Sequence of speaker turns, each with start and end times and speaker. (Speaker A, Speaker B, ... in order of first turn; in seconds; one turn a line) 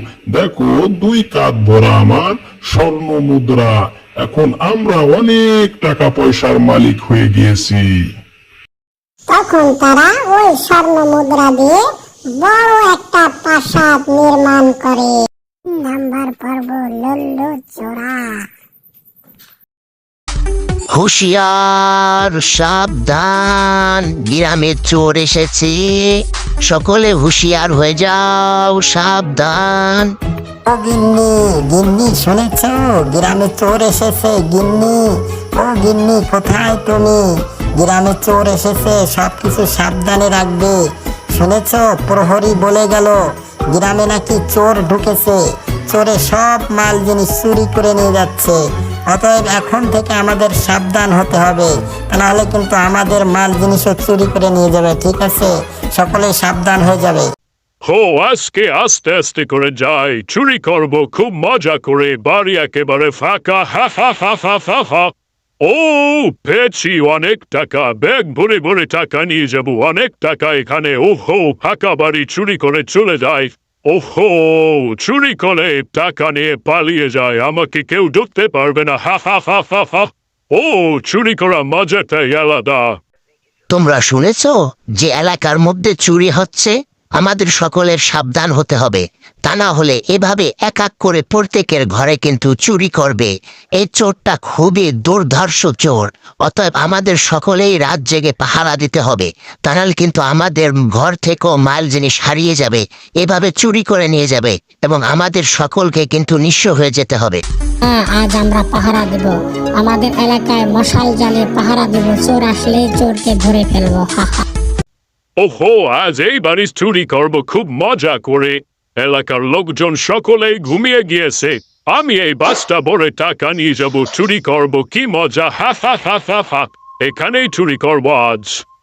Speaker A: 0.3-7.8
Speaker B: 9.3-11.8
Speaker B: 12.4-18.4
Speaker C: 20.9-30.1
Speaker D: 30.7-37.2
Speaker D: 37.8-40.8
Speaker D: 41.3-43.2
Speaker D: 43.7-57.3
Speaker E: 57.9-65.1
Speaker E: 65.6-83.0
Speaker C: 83.7-107.4
Speaker F: 107.9-114.3
Speaker E: 115.4-128.6